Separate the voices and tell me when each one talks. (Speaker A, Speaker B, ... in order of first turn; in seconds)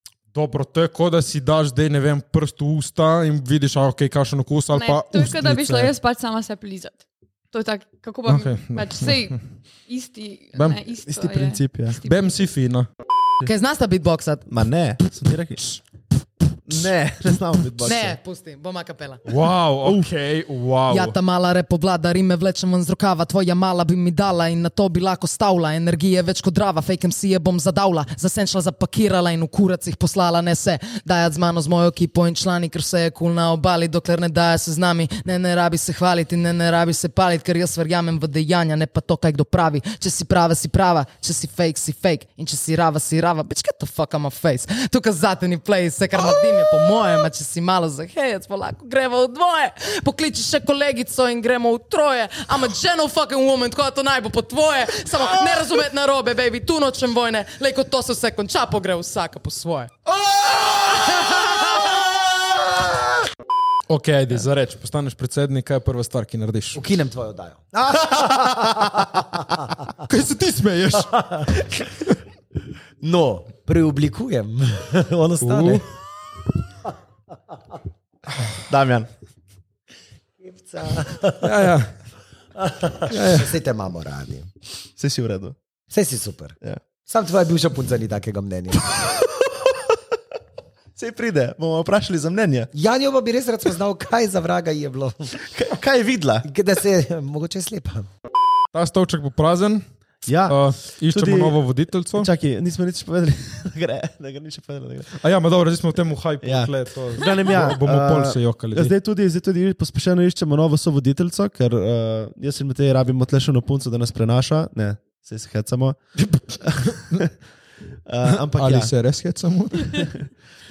Speaker A: 0.3-5.9, 8.2-9.3, 10.5-10.8, 12.0-12.9, 19.2-21.1, 60.3-60.7, 63.9-66.8, 70.1-72.1, 75.4-75.8, 81.4-81.9, 83.1-83.5, 98.7-99.8, 100.5-102.3, 105.2-108.9, 116.9-117.2, 118.5-120.1
Speaker B: 4.7-12.2
Speaker C: 11.1-12.0, 14.5-15.8, 16.6-18.2, 78.7-79.1, 85.0-85.5, 91.0-92.7, 95.5-96.5, 100.2-101.6, 102.1-105.1, 106.4-116.0, 116.6-117.3, 118.1-118.9
Speaker D: 13.4-14.4, 17.8-19.2, 20.9-59.9
Speaker E: 66.7-69.6, 73.0-75.8, 80.4-81.3, 82.6-84.5, 85.9-88.8, 92.7-95.3, 96.4-98.1